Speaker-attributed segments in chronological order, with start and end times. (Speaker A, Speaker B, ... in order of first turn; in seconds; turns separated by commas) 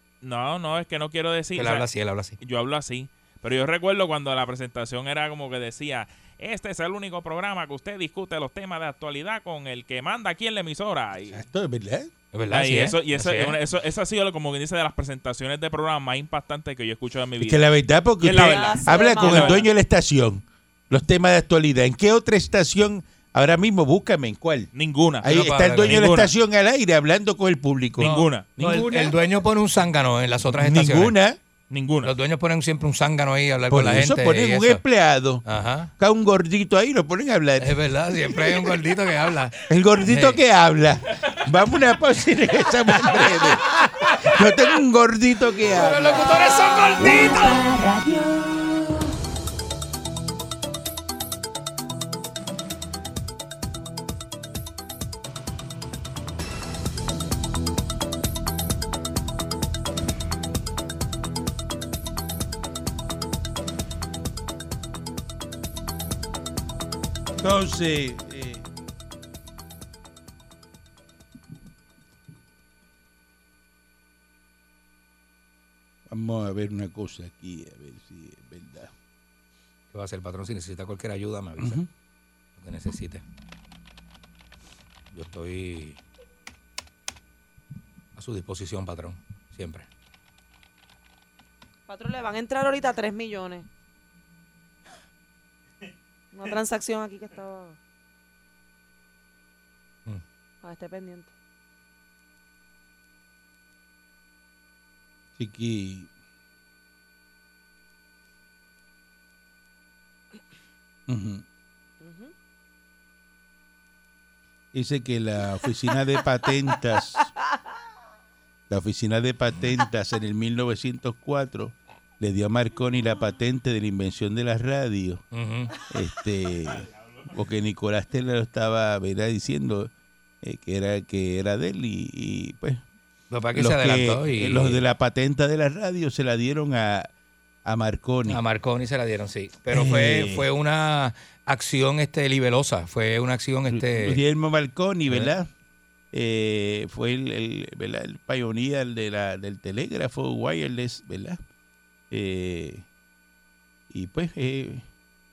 Speaker A: 0.2-1.9, Speaker B: 1.6-2.4, Speaker A: 2.4-11.4, Speaker C: 11.3-12.1, Speaker B: 12.3-13.6, Speaker A: 12.5-17.6, Speaker C: 17.4-24.7, Speaker A: 18.2-19.6, Speaker D: 18.3-19.6, Speaker A: 24.7-26.3, Speaker C: 25.2-29.2, Speaker B: 25.2-26.0, Speaker A: 28.0-28.5, Speaker B: 28.0-31.1, Speaker C: 30.4-31.4, Speaker A: 31.7-32.1, Speaker B: 32.0-34.8, Speaker C: 33.7-35.4, Speaker B: 35.5-35.9, Speaker C: 36.0-38.4, Speaker B: 37.6-40.4, Speaker C: 39.7-46.3, Speaker B: 43.1-44.4, Speaker B: 45.7-47.6, Speaker E: 47.0-49.1, Speaker C: 67.4-68.6, Speaker C: 76.1-78.9, Speaker B: 79.9-81.8, Speaker C: 81.6-81.9, Speaker B: 82.6-83.2, Speaker B: 85.1-86.0, Speaker B: 88.2-89.9, Speaker D: 91.9-93.7, Speaker D: 96.3-97.8, Speaker D: 100.6-101.3, Speaker C: 105.4-106.1, Speaker C: 111.1-111.4, Speaker D: 112.0-112.3, Speaker C: 114.7-117.3, Speaker C: 118.7-125.2, Speaker B: 125.3-125.7, Speaker C: 125.9-129.9, Speaker C: 130.4-132.8, Speaker B: 133.3-134.8, Speaker C: 133.6-137.1, Speaker C: 137.7-138.4, Speaker B: 138.3-144.2, Speaker C: 139.7-140.5, Speaker C: 143.7-145.5, Speaker C: 146.1-151.4, Speaker C: 152.1-152.8, Speaker C: 153.9-154.8